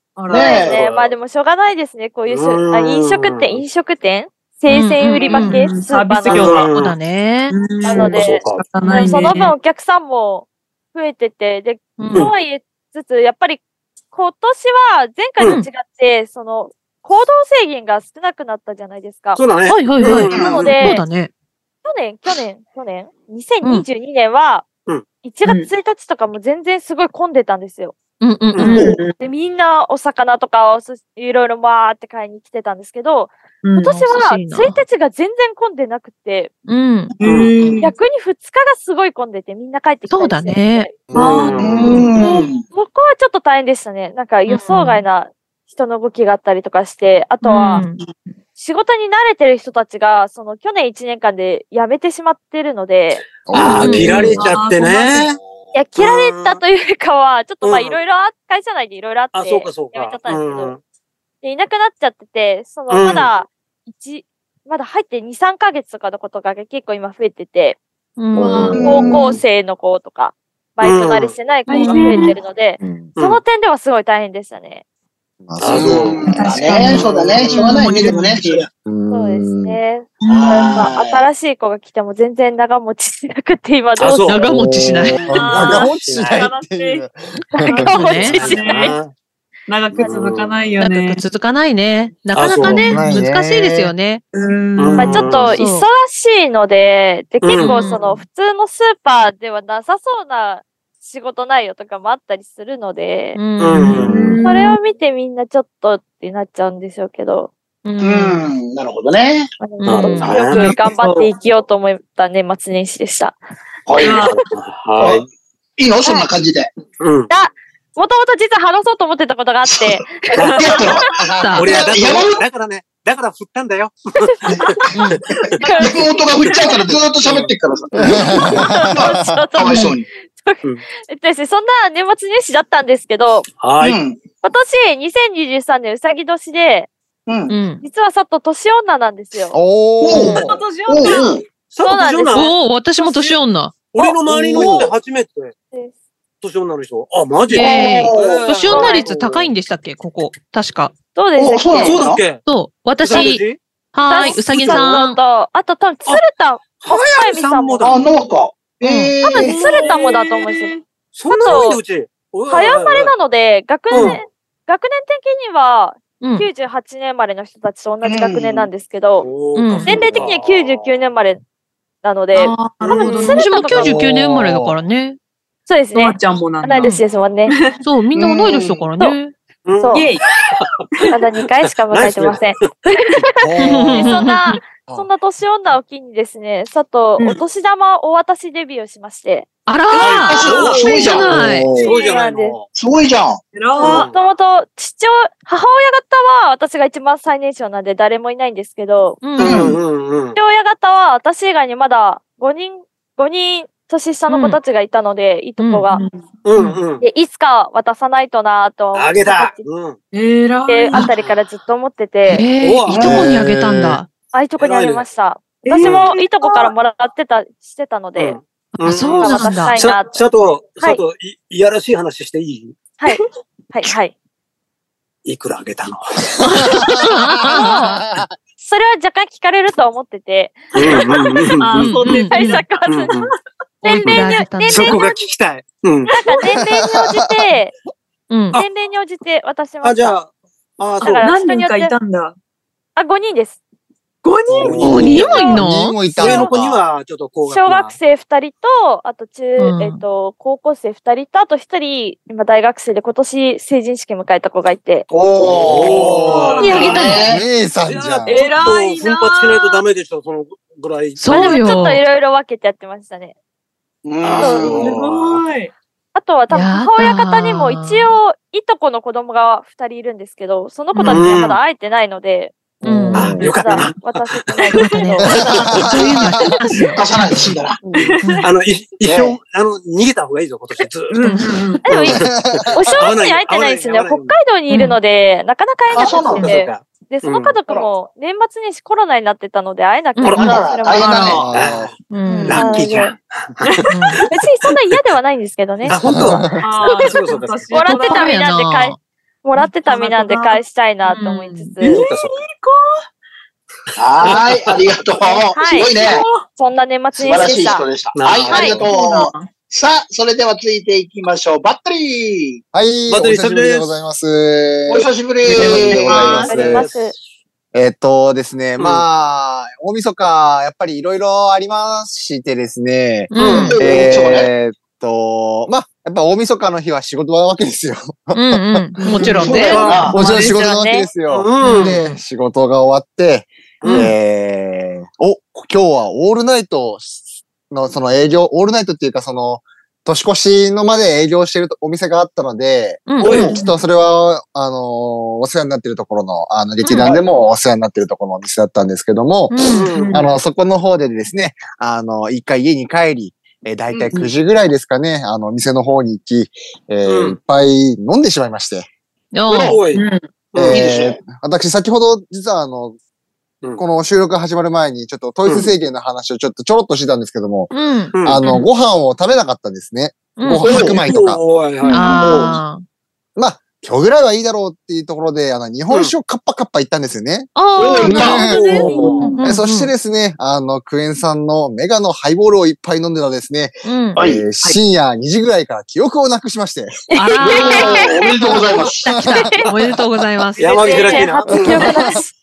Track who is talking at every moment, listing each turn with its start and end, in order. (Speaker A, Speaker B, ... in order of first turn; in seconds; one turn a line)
Speaker A: 0.2-0.7
Speaker B: 0.3-0.8
Speaker C: 0.3-6.6
Speaker D: 0.5-1.1
Speaker D: 2.3-3.6
Speaker E: 4.7-5.6
Speaker A: 5.2-6.7
Speaker D: 6.3-7.0
Speaker E: 6.6-7.6
Speaker A: 7.5-9.5
Speaker C: 7.8-19.5
Speaker D: 7.9-8.7
Speaker E: 12.0-12.3
Speaker D: 19.4-20.8
Speaker E: 19.7-21.3
Speaker C: 20.3-21.1
Speaker B: 20.3-20.7
Speaker C: 21.9-24.7
Speaker C: 25.2-28.0
Speaker A: 25.4-25.7
Speaker E: 28.2-28.9
Speaker D: 28.5-28.8
Speaker A: 28.6-29.2
Speaker C: 29.1-36.5
Speaker A: 33.6-33.9
Speaker E: 33.9-34.8
Speaker E: 36.7-37.1
Speaker A: 37.2-37.9
Speaker D: 37.2-37.5
Speaker C: 37.8-41.0
Speaker E: 40.1-40.9
Speaker F: 41.1-41.6
Speaker D: 41.1-42.1
Speaker A: 41.1-42.0
Speaker B: 41.6-42.6
Speaker C: 42.1-47.9
Speaker E: 44.5-45.0
Speaker A: 47.4-48.1
Speaker E: 47.5-48.0
Speaker C: 48.6-53.3
Speaker F: 53.5-54.5
Speaker D: 53.5-55.4
Speaker E: 53.7-54.4
Speaker A: 54.1-55.3
Speaker C: 55.7-60.7
Speaker D: 56.0-56.6
Speaker D: 57.6-58.0
Speaker D: 59.3-60.8
Speaker C: 61.4-67.8
Speaker D: 62.9-63.3
Speaker E: 68.2-69.0
Speaker F: 68.3-69.0
Speaker C: 68.7-74.8
Speaker B: 68.8-69.3
Speaker D: 70.8-71.3
Speaker A: 71.7-72.4
Speaker F: 72.8-73.1
Speaker D: 73.2-73.4
Speaker F: 75.5-76.5
Speaker D: 75.6-76.2
Speaker B: 75.8-78.7
Speaker A: 76.2-78.6
Speaker D: 77.0-77.7
Speaker F: 78.9-79.8
Speaker C: 79.1-84.5
Speaker A: 80.2-80.9
Speaker B: 80.3-81.3
Speaker D: 84.0-84.4
Speaker E: 84.2-85.2
Speaker F: 84.5-87.9
Speaker D: 85.3-86.5
Speaker A: 85.3-87.1
Speaker C: 87.5-89.0
Speaker A: 87.7-89.0
Speaker E: 87.8-88.4
Speaker D: 88.2-89.1
Speaker A: 89.7-91.2
Speaker D: 89.9-90.6
Speaker E: 90.8-94.2
Speaker D: 92.3-93.0
Speaker F: 92.6-93.9
Speaker A: 94.3-95.3
Speaker D: 94.8-95.6
Speaker C: 95.0-103.4
Speaker E: 95.5-95.9
Speaker D: 97.4-97.8
Speaker E: 97.6-98.2
Speaker E: 103.4-104.2
Speaker D: 103.6-104.3
Speaker A: 103.7-104.8
Speaker F: 104.0-104.3
Speaker C: 104.4-107.5
Speaker E: 107.8-108.5
Speaker B: 108.0-109.5
Speaker C: 109.6-113.4
Speaker E: 109.8-110.6
Speaker D: 109.8-110.8
Speaker A: 110.8-111.3
Speaker B: 113.9-114.2
Speaker A: 114.0-114.4
Speaker D: 114.0-115.3
Speaker B: 115.0-116.7
Speaker D: 117.0-117.3
Speaker C: 117.3-122.0
Speaker B: 119.7-121.0
Speaker D: 120.3-120.9
Speaker A: 120.6-120.8
Speaker E: 121.3-121.7
Speaker D: 121.5-125.6
Speaker B: 121.6-122.4
Speaker C: 124.2-126.8
Speaker E: 125.0-125.2
Speaker B: 125.5-129.0
Speaker A: 125.6-126.6
Speaker D: 127.2-127.5
Speaker F: 128.0-129.5
Speaker C: 128.3-133.5
Speaker B: 129.6-130.1
Speaker D: 133.6-134.0
Speaker B: 133.8-134.2
Speaker C: 134.4-136.9
Speaker B: 137.3-137.6
Speaker E: 137.5-137.8
Speaker C: 137.8-139.6
Speaker F: 139.5-140.6
Speaker B: 140.0-141.4
Speaker A: 140.2-141.3
Speaker D: 141.7-143.4
Speaker C: 141.8-142.6
Speaker E: 142.3-143.9
Speaker D: 143.9-145.5
Speaker F: 144.3-144.9
Speaker D: 146.4-149.5
Speaker E: 147.5-150.9
Speaker B: 147.6-148.5
Speaker C: 148.7-149.1
Speaker C: 151.2-152.1
Speaker B: 151.4-152.2
Speaker D: 151.8-152.4
Speaker E: 152.4-155.2
Speaker D: 153.0-153.6
Speaker C: 154.1-158.0
Speaker D: 154.1-155.0
Speaker D: 156.8-158.0
Speaker B: 157.8-159.6
Speaker E: 158.8-159.2
Speaker C: 159.2-160.8
Speaker A: 159.4-160.8
Speaker D: 161.1-163.1
Speaker C: 161.3-161.8
Speaker C: 162.5-169.3
Speaker D: 163.9-164.2
Speaker E: 166.2-166.5
Speaker B: 168.1-168.7
Speaker D: 169.2-170.9
Speaker E: 169.6-170.0
Speaker C: 169.8-171.4
Speaker C: 172.0-174.0
Speaker A: 172.3-173.4
Speaker D: 172.8-173.3
Speaker E: 173.2-175.2
Speaker F: 173.8-174.8
Speaker C: 175.7-177.7
Speaker A: 175.9-177.0
Speaker A: 177.5-177.8
Speaker E: 177.8-179.3
Speaker B: 178.2-178.9
Speaker D: 179.7-180.8
Speaker C: 179.8-180.1
Speaker A: 179.9-180.3
Speaker C: 181.1-189.5
Speaker D: 181.6-182.7
Speaker F: 183.4-184.2
Speaker E: 183.6-184.6
Speaker E: 189.7-191.7
Speaker D: 190.0-192.7
Speaker C: 190.0-192.6
Speaker B: 190.0-191.8
Speaker F: 191.3-191.7
Speaker B: 192.7-193.4
Speaker A: 193.5-194.1
Speaker D: 193.8-194.2
Speaker C: 193.8-199.3
Speaker E: 199.2-199.7
Speaker D: 199.4-200.4
Speaker B: 199.4-199.8
Speaker C: 200.3-206.1
Speaker E: 204.3-204.6
Speaker E: 205.6-205.9
Speaker A: 205.9-206.2
Speaker D: 206.4-207.0
Speaker C: 207.0-209.7
Speaker D: 208.9-210.0
Speaker A: 210.1-211.1
Speaker C: 210.7-212.5
Speaker E: 212.3-214.1
Speaker D: 212.6-214.0
Speaker B: 212.9-213.3
Speaker C: 214.3-218.4
Speaker D: 214.6-215.1
Speaker A: 215.6-216.7
Speaker D: 215.8-216.1
Speaker D: 218.2-222.8
Speaker E: 218.7-219.8
Speaker C: 219.2-220.2
Speaker C: 223.0-224.2
Speaker D: 225.2-226.6
Speaker F: 226.4-228.3
Speaker E: 226.9-227.7
Speaker C: 227.4-228.0
Speaker C: 228.6-231.2
Speaker D: 230.7-232.0
Speaker A: 230.8-232.6
Speaker E: 232.0-232.6
Speaker C: 232.2-233.2
Speaker D: 232.9-233.3
Speaker C: 233.8-235.3
Speaker E: 233.8-235.0
Speaker D: 234.0-236.2
Speaker C: 236.1-237.7
Speaker F: 236.4-237.5
Speaker E: 238.3-238.6
Speaker C: 238.5-240.2
Speaker D: 239.8-241.3
Speaker C: 241.0-241.9
Speaker A: 241.2-242.4
Speaker C: 243.0-243.6
Speaker A: 244.2-245.0
Speaker F: 244.6-246.8
Speaker D: 244.6-245.4
Speaker E: 244.8-246.0
Speaker C: 245.2-245.6
Speaker D: 246.1-248.0
Speaker C: 246.2-246.5
Speaker C: 247.5-255.1
Speaker E: 249.6-250.0
Speaker B: 255.1-257.4
Speaker D: 255.4-257.2
Speaker F: 255.5-258.4
Speaker E: 256.6-257.2
Speaker A: 256.9-257.1
Speaker D: 257.9-261.6
Speaker A: 258.3-259.8
Speaker E: 261.2-262.0
Speaker C: 261.3-263.3
Speaker B: 264.1-264.9
Speaker D: 264.2-265.4
Speaker C: 264.4-264.8
Speaker A: 264.8-265.7
Speaker C: 266.1-275.6
Speaker E: 266.5-268.1
Speaker A: 270.9-271.3
Speaker D: 271.1-271.6
Speaker F: 272.8-273.5
Speaker E: 272.8-273.4
Speaker D: 273.1-274.6
Speaker E: 274.7-277.0
Speaker F: 275.2-276.5
Speaker D: 275.3-275.9
Speaker B: 276.9-277.8
Speaker A: 278.1-278.4
Speaker E: 278.2-278.5
Speaker D: 278.4-281.3
Speaker B: 279.1-279.4
Speaker A: 281.1-281.8
Speaker E: 281.2-281.6
Speaker C: 281.8-291.5
Speaker D: 281.9-284.4
Speaker F: 282.1-283.0
Speaker E: 284.7-285.0
Speaker B: 285.9-286.5
Speaker D: 286.4-287.6
Speaker E: 290.2-290.5
Speaker D: 290.2-294.3
Speaker B: 290.4-291.5
Speaker F: 291.4-292.0
Speaker E: 292.1-292.6
Speaker B: 292.3-292.6
Speaker C: 292.5-293.1
Speaker A: 293.7-294.2
Speaker E: 293.9-294.2
Speaker C: 294.2-296.0
Speaker F: 295.9-296.6
Speaker D: 295.9-298.0
Speaker A: 296.6-298.4
Speaker C: 296.8-302.1
Speaker E: 298.0-299.0
Speaker A: 299.6-301.2
Speaker E: 301.1-301.7
Speaker A: 301.8-303.1
Speaker D: 301.9-302.4
Speaker B: 304.0-306.2
Speaker D: 304.2-304.8
Speaker C: 305.5-307.9
Speaker A: 306.0-306.5
Speaker B: 307.2-312.6
Speaker D: 308.1-308.9
Speaker C: 308.5-308.8
Speaker A: 308.5-309.5
Speaker F: 312.7-316.9
Speaker D: 313.1-313.9
Speaker B: 314.9-316.5
Speaker A: 315.6-316.6
Speaker C: 316.1-317.1
Speaker D: 316.3-317.2
Speaker F: 317.7-329.4
Speaker D: 318.8-319.0
Speaker E: 323.3-323.8
Speaker D: 323.4-323.8
Speaker B: 323.4-324.5
Speaker E: 328.3-330.1
Speaker B: 329.1-330.2
Speaker D: 329.2-330.1
Speaker A: 329.2-330.7
Speaker F: 330.1-358.9
Speaker C: 330.4-331.1
Speaker D: 331.3-332.0
Speaker E: 331.6-332.2
Speaker D: 333.8-334.1
Speaker E: 333.9-334.1
Speaker E: 343.1-343.5
Speaker D: 343.2-343.6
Speaker B: 343.2-343.6
Speaker E: 346.8-347.1
Speaker B: 347.0-347.3
Speaker E: 349.5-349.9
Speaker D: 349.6-350.4
Speaker A: 349.7-350.2
Speaker B: 353.9-354.2
Speaker D: 357.1-357.4
Speaker E: 359.3-359.8
Speaker D: 359.5-360.9
Speaker A: 359.9-360.3
Speaker F: 360.5-363.0
Speaker B: 360.7-361.2
Speaker F: 363.8-371.4
Speaker D: 365.5-365.7
Speaker E: 367.7-368.7
Speaker D: 368.1-368.4
Speaker E: 370.4-370.9
Speaker B: 370.6-371.0
Speaker D: 370.7-372.2
Speaker A: 371.8-372.2
Speaker E: 371.9-372.8
Speaker B: 372.1-372.6
Speaker F: 373.4-387.1
Speaker D: 375.9-376.1
Speaker E: 377.6-378.6
Speaker B: 377.8-379.2
Speaker D: 378.1-379.3
Speaker A: 378.6-379.5
Speaker E: 379.2-379.9
Speaker E: 383.8-384.2
Speaker B: 384.2-384.4
Speaker C: 387.1-388.6
Speaker E: 387.2-390.8
Speaker B: 387.4-389.2
Speaker F: 389.1-389.9
Speaker C: 389.3-389.7
Speaker A: 390.6-391.3
Speaker D: 390.6-391.9
Speaker C: 390.7-392.3
Speaker F: 391.5-392.2